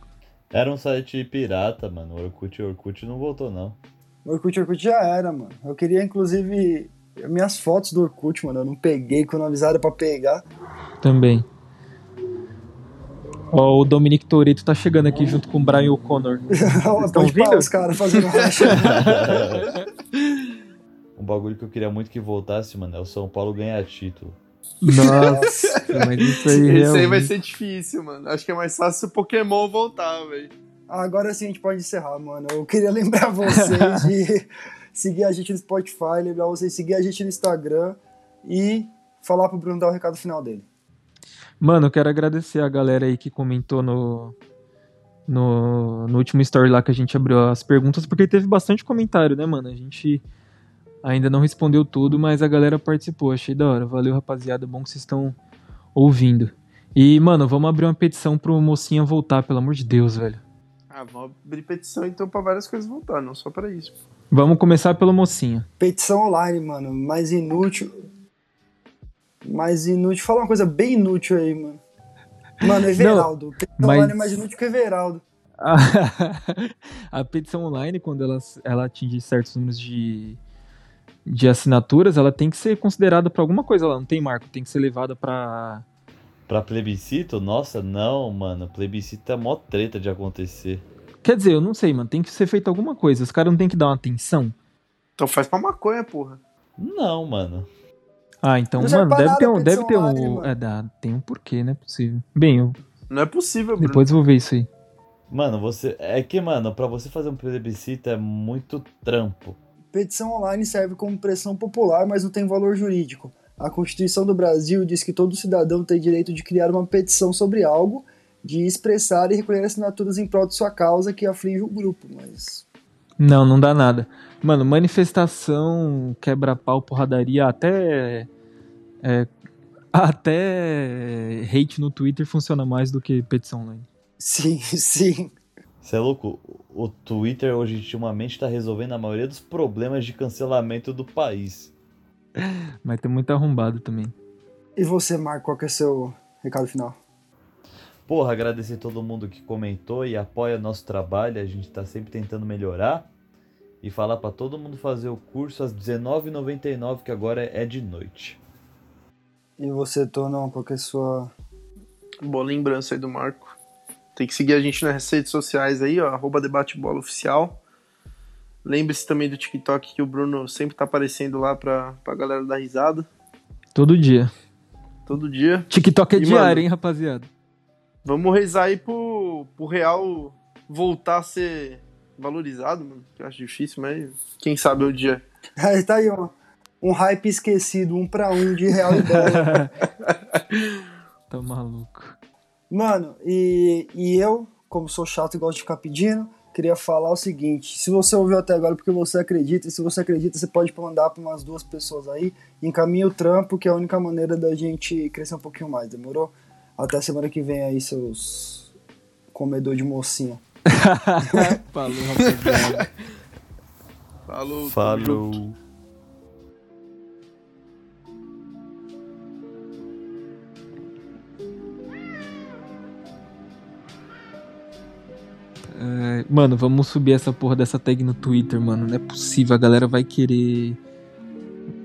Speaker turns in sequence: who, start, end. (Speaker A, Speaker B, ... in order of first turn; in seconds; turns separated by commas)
Speaker A: 0.5-3.8, Speaker B: 4.2-10.4, Speaker C: 11.0-11.5, Speaker C: 13.5-17.7, Speaker B: 16.5-19.6, Speaker C: 18.7-19.8, Speaker A: 18.8-19.7, Speaker A: 21.2-24.4, Speaker C: 24.8-27.3, Speaker B: 25.2-25.8, Speaker D: 25.5-30.5, Speaker B: 30.9-40.7, Speaker C: 33.5-34.1, Speaker C: 41.6-44.4, Speaker C: 45.3-50.2, Speaker C: 51.0-55.4, Speaker C: 56.0-60.4, Speaker D: 60.9-64.0, Speaker C: 64.3-65.7, Speaker B: 65.8-67.9, Speaker B: 69.4-71.8, Speaker B: 72.6-75.2, Speaker C: 73.0-74.4, Speaker C: 75.6-80.4, Speaker C: 81.3-85.8, Speaker A: 86.5-90.8, Speaker C: 91.2-94.5, Speaker D: 95.2-96.4, Speaker A: 96.8-97.7, Speaker C: 98.4-102.8, Speaker B: 98.8-100.5, Speaker D: 103.1-104.1, Speaker C: 103.8-104.7, Speaker A: 105.3-109.6, Speaker B: 109.9-122.7, Speaker C: 123.2-128.3, Speaker C: 129.0-129.3, Speaker C: 129.9-133.9, Speaker B: 134.2-135.3, Speaker A: 135.8-141.7, Speaker C: 142.4-144.1, Speaker B: 144.8-147.0, Speaker A: 148.1-153.1, Speaker A: 153.8-158.4, Speaker B: 159.6-161.3, Speaker D: 162.2-163.6, Speaker D: 164.2-167.6, Speaker D: 168.7-173.1, Speaker C: 173.8-174.3, Speaker D: 175.1-176.7, Speaker C: 175.7-177.3, Speaker D: 178.1-185.2, Speaker B: 185.6-189.7, Speaker C: 189.1-189.7, Speaker D: 190.0-190.4, Speaker C: 191.3-192.2, Speaker B: 192.7-208.7, Speaker B: 209.3-210.4, Speaker C: 210.7-212.9, Speaker B: 211.2-211.5, Speaker D: 212.3-212.9, Speaker D: 214.3-215.4, Speaker A: 214.7-215.6, Speaker C: 225.7-230.8